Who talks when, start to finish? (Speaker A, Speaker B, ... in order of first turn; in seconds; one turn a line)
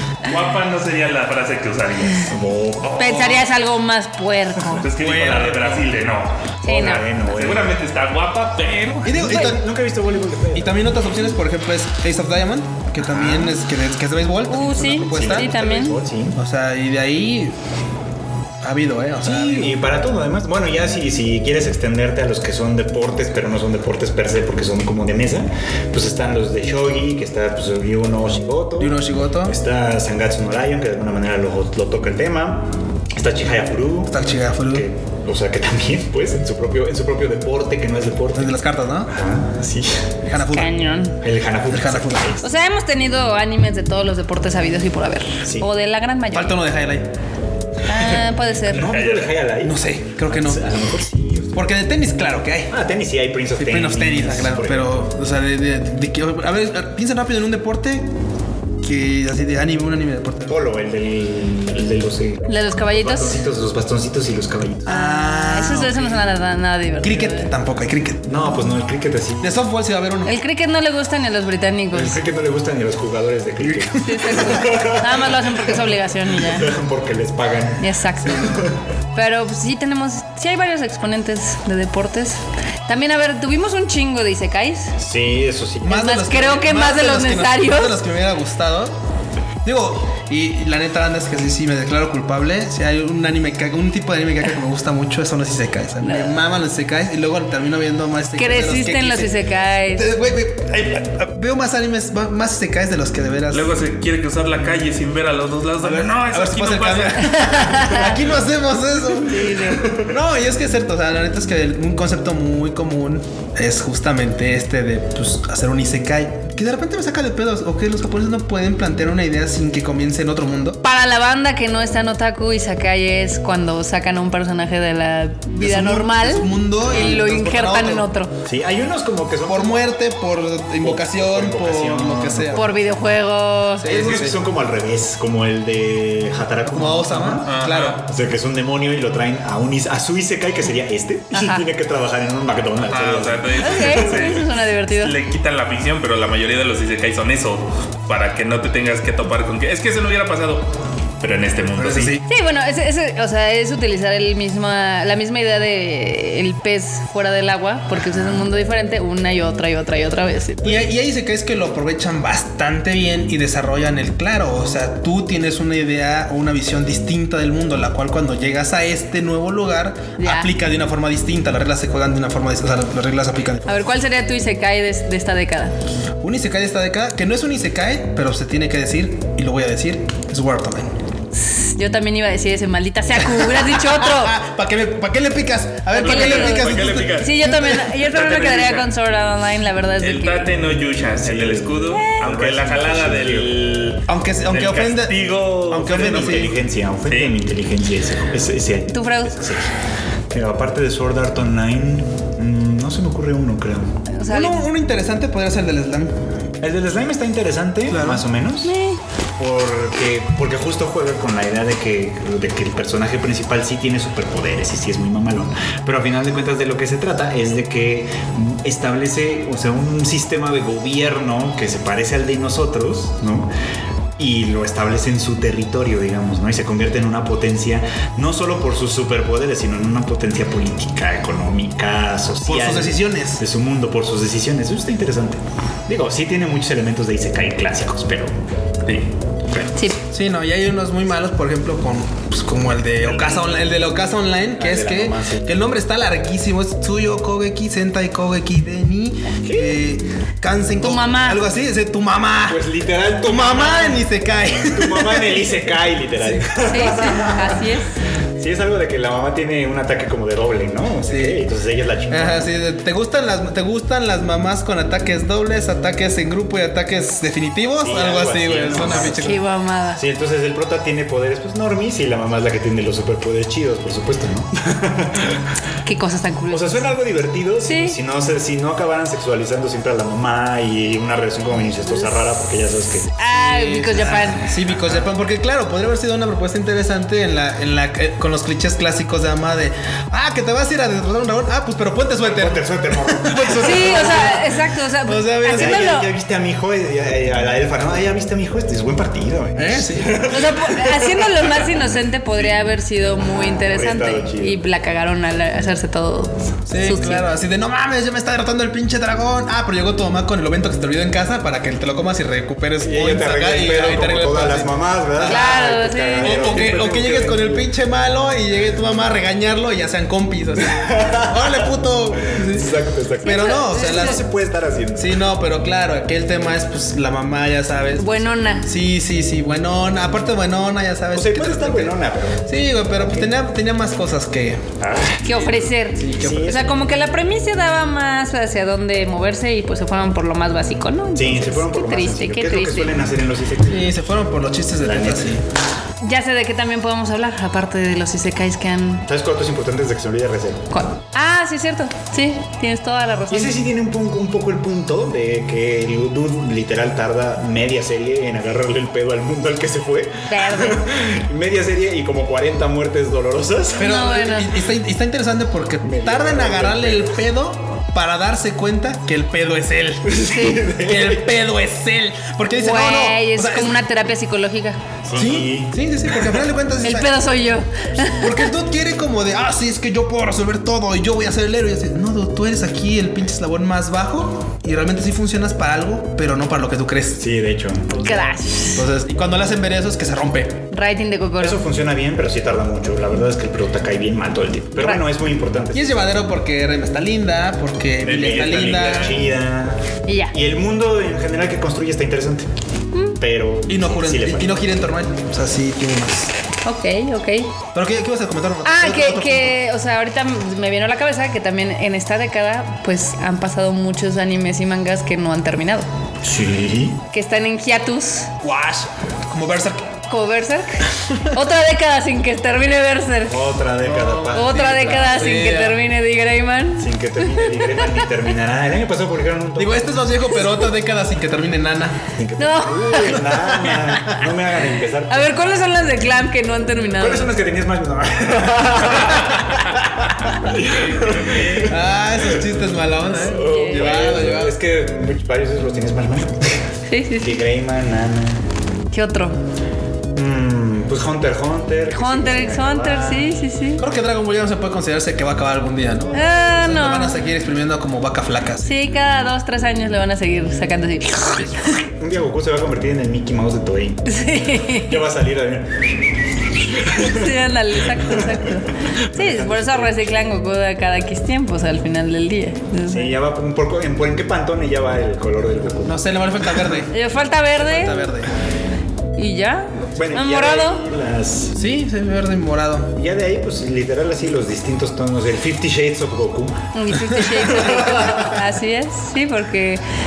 Speaker A: 0.2-2.3
Speaker B: 2.3-3.2
Speaker A: 2.9-3.5
Speaker C: 3.0-4.9
Speaker A: 4.7-6.4
Speaker D: 4.9-5.9
Speaker C: 6.6-7.1
Speaker B: 6.6-7.7
Speaker A: 7.1-9.2
Speaker D: 9.1-9.7
Speaker B: 9.1-10.9
Speaker C: 9.2-9.5
Speaker D: 10.5-15.6
Speaker B: 13.0-13.6
Speaker C: 14.5-16.0
Speaker B: 15.1-16.4
Speaker D: 16.4-17.5
Speaker D: 18.6-19.8
Speaker B: 19.2-34.1
Speaker D: 28.8-29.6
Speaker D: 34.1-34.9
Speaker B: 34.7-38.5
Speaker D: 38.4-39.1
Speaker B: 39.1-40.2
Speaker D: 40.3-40.8
Speaker C: 40.4-41.2
Speaker B: 41.2-42.5
Speaker D: 41.7-42.4
Speaker C: 42.4-46.6
Speaker B: 45.4-45.7
Speaker D: 46.3-47.1
Speaker C: 47.9-49.0
Speaker B: 47.9-51.6
Speaker A: 48.8-49.3
Speaker D: 49.6-50.6
Speaker D: 51.5-52.7
Speaker B: 52.7-54.9
Speaker D: 53.6-58.0
Speaker D: 58.8-60.6
Speaker B: 60.5-64.9
Speaker C: 62.5-63.4
Speaker D: 64.8-66.3
Speaker C: 64.9-67.5
Speaker D: 67.0-68.4
Speaker B: 68.2-69.6
Speaker D: 69.4-70.3
Speaker C: 70.2-72.2
Speaker B: 71.9-78.8
Speaker C: 74.0-76.7
Speaker C: 77.8-84.9
Speaker B: 85.0-86.0
Speaker D: 85.8-88.9
Speaker C: 85.9-88.0
Speaker D: 89.7-99.3
Speaker C: 96.0-96.3
Speaker C: 98.4-100.1
Speaker D: 99.9-103.7
Speaker A: 103.5-107.4
Speaker D: 105.8-120.8
Speaker C: 107.2-108.2
Speaker C: 109.2-109.9
Speaker B: 109.8-110.1
Speaker C: 120.8-128.3
Speaker D: 125.6-128.1
Speaker B: 128.4-129.9
Speaker D: 129.5-132.7
Speaker B: 130.8-132.8
Speaker C: 132.5-133.9
Speaker D: 133.8-134.4
Speaker B: 133.8-137.5
Speaker D: 136.7-138.0
Speaker A: 137.4-138.0
Speaker B: 138.0-144.4
Speaker C: 141.3-141.7
Speaker A: 142.9-152.2
Speaker C: 143.6-145.2
Speaker D: 151.8-152.2
Speaker C: 152.3-160.8
Speaker D: 160.6-173.9
Speaker C: 170.2-170.5
Speaker C: 173.7-175.8
Speaker D: 176.2-180.9
Speaker C: 181.3-184.4
Speaker D: 183.2-187.9
Speaker C: 185.9-190.5
Speaker A: 186.0-187.4
Speaker A: 188.0-188.9
Speaker A: 190.0-196.5
Speaker B: 191.2-193.6
Speaker C: 191.9-192.2
Speaker D: 194.1-196.6
Speaker B: 195.8-199.7
Speaker A: 197.1-197.4
Speaker C: 198.9-199.4
Speaker B: 200.3-203.9
Speaker C: 204.1-204.7
Speaker D: 204.3-206.2
Speaker B: 206.6-208.7
Speaker D: 207.9-208.2
Speaker C: 208.6-209.0
Speaker B: 209.4-223.5
Speaker B: 224.2-238.4
Speaker D: 232.5-233.4
Speaker B: 239.5-239.9
Speaker D: 240.1-252.6
Speaker B: 243.0-243.5
Speaker B: 244.6-245.5
Speaker B: 249.4-249.8
Speaker C: 250.8-251.4
Speaker B: 252.5-254.0
Speaker D: 253.2-255.6
Speaker B: 254.6-257.7
Speaker C: 256.6-257.9
Speaker B: 258.4-262.5
Speaker D: 261.1-261.4
Speaker D: 262.1-269.4
Speaker B: 267.8-275.5
Speaker C: 268.9-270.0
Speaker C: 275.9-276.9
Speaker B: 276.5-283.1
Speaker C: 277.6-278.0
Speaker C: 283.2-284.5
Speaker D: 283.3-295.9
Speaker B: 284.7-285.1
Speaker B: 292.2-294.4
Speaker C: 293.6-296.1
Speaker B: 295.5-301.8
Speaker D: 299.6-300.3
Speaker C: 300.3-307.3
Speaker B: 303.2-304.6
Speaker D: 306.7-315.5
Speaker B: 312.8-317.7
Speaker C: 315.2-316.6
Speaker D: 316.2-322.7
Speaker B: 320.6-325.2
Speaker D: 323.2-324.2
Speaker C: 323.2-324.2
Speaker D: 325.0-334.7
Speaker C: 328.0-328.7
Speaker B: 331.1-333.3
Speaker B: 334.8-336.8
Speaker C: 335.2-343.0
Speaker D: 336.0-336.6
Speaker B: 341.1-343.9
Speaker D: 343.7-345.4
Speaker B: 344.8-345.4
Speaker C: 346.0-349.1
Speaker B: 349.1-350.7
Speaker C: 350.7-353.6
Speaker B: 353.3-363.9
Speaker C: 360.3-360.9
Speaker C: 363.8-364.5
Speaker D: 363.8-373.8
Speaker B: 365.8-367.2
Speaker B: 370.0-371.4
Speaker C: 370.3-370.6
Speaker C: 372.5-374.8
Speaker B: 375.0-376.4
Speaker D: 375.1-377.2
Speaker C: 376.8-378.5
Speaker D: 378.0-387.2
Speaker B: 387.2-388.2
Speaker C: 388.0-388.9
Speaker D: 388.1-390.7
Speaker C: 390.7-391.6
Speaker B: 391.4-396.0
Speaker D: 395.7-399.2
Speaker A: 398.0-399.1
Speaker B: 398.1-402.5
Speaker C: 400.1-400.3
Speaker C: 402.9-403.2
Speaker B: 403.2-404.6
Speaker D: 403.7-406.3
Speaker C: 406.6-407.5
Speaker D: 407.7-409.6
Speaker C: 408.6-415.9
Speaker B: 416.2-417.0
Speaker C: 417.1-418.3
Speaker D: 418.4-419.9
Speaker C: 420.1-423.5
Speaker B: 423.3-425.3
Speaker D: 423.8-425.8
Speaker C: 424.3-427.9
Speaker B: 426.8-430.0
Speaker D: 429.6-432.1
Speaker B: 432.2-435.9
Speaker C: 432.4-434.2
Speaker C: 435.1-437.4
Speaker B: 437.0-439.6
Speaker B: 440.4-441.8
Speaker A: 440.8-441.7
Speaker D: 441.6-444.6
Speaker B: 443.2-446.7
Speaker C: 443.2-444.0
Speaker C: 446.9-447.4
Speaker B: 447.2-448.5
Speaker C: 448.9-449.4
Speaker B: 450.1-453.4
Speaker C: 451.9-453.8
Speaker D: 453.8-458.8
Speaker C: 456.1-457.2
Speaker C: 458.6-461.8
Speaker B: 461.7-466.0
Speaker C: 464.1-465.0
Speaker B: 466.6-468.5
Speaker C: 466.9-473.2
Speaker B: 469.1-470.2
Speaker B: 472.9-476.0
Speaker D: 475.9-478.3
Speaker C: 476.9-478.1
Speaker C: 479.2-480.8
Speaker B: 479.9-481.6
Speaker D: 481.6-482.9
Speaker B: 482.9-488.3
Speaker C: 486.7-489.8